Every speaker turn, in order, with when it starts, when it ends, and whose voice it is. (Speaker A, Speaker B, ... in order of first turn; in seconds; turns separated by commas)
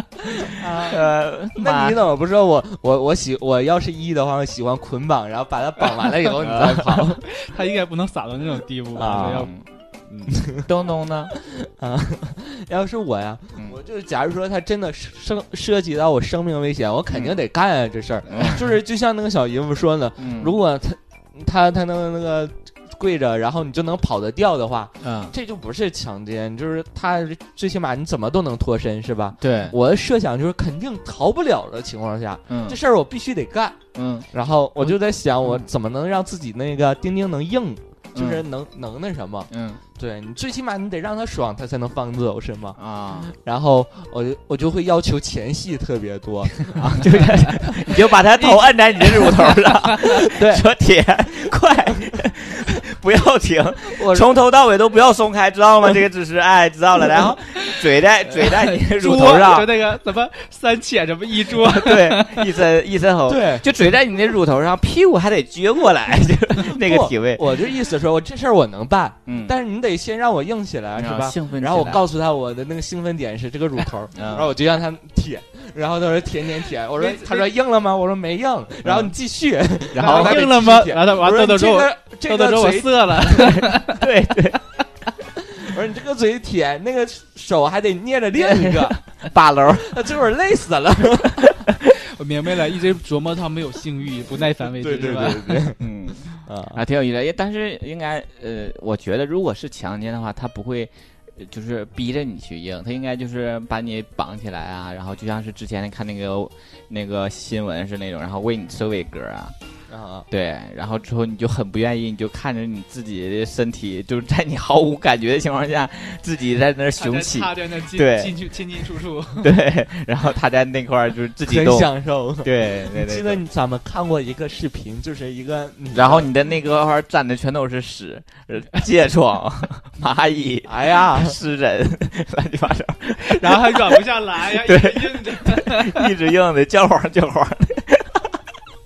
Speaker A: 0.4-7.2, Speaker B: 0.7-2.0, Speaker B: 6.3-7.1, Speaker C: 7.2-10.4, Speaker A: 8.9-9.5, Speaker B: 9.0-9.6, Speaker B: 10.6-11.3, Speaker A: 11.4-33.8, Speaker B: 17.1-17.4, Speaker B: 18.3-18.7, Speaker B: 20.2-20.6, Speaker B: 25.0-25.3, Speaker B: 29.4-29.8, Speaker B: 32.5-32.8, Speaker B: 33.9-34.3, Speaker A: 34.3-47.2, Speaker B: 38.1-38.4, Speaker B: 39.5-39.8, Speaker B: 42.8-43.3, Speaker B: 46.7-59.8, Speaker C: 49.0-50.6, Speaker A: 54.0-54.3, Speaker C: 58.3-62.5, Speaker B: 61.5-67.7, Speaker A: 63.3-63.6, Speaker A: 66.6-83.6, Speaker B: 69.2-69.5, Speaker B: 70.9-72.0, Speaker B: 74.1-74.5, Speaker C: 76.9-77.5, Speaker B: 78.8-79.1, Speaker C: 79.9-84.0, Speaker B: 79.9-80.4, Speaker B: 83.3-84.6, Speaker A: 85.5-89.1, Speaker B: 88.3-90.0, Speaker A: 89.6-91.7, Speaker C: 91.9-95.7, Speaker A: 94.7-96.8, Speaker B: 95.8-109.5, Speaker A: 109.9-110.3, Speaker B: 110.3-118.4, Speaker C: 117.0-119.5, Speaker B: 119.4-123.4, Speaker A: 121.5-126.3, Speaker B: 125.9-138.4, Speaker A: 130.7-131.4, Speaker C: 133.2-136.1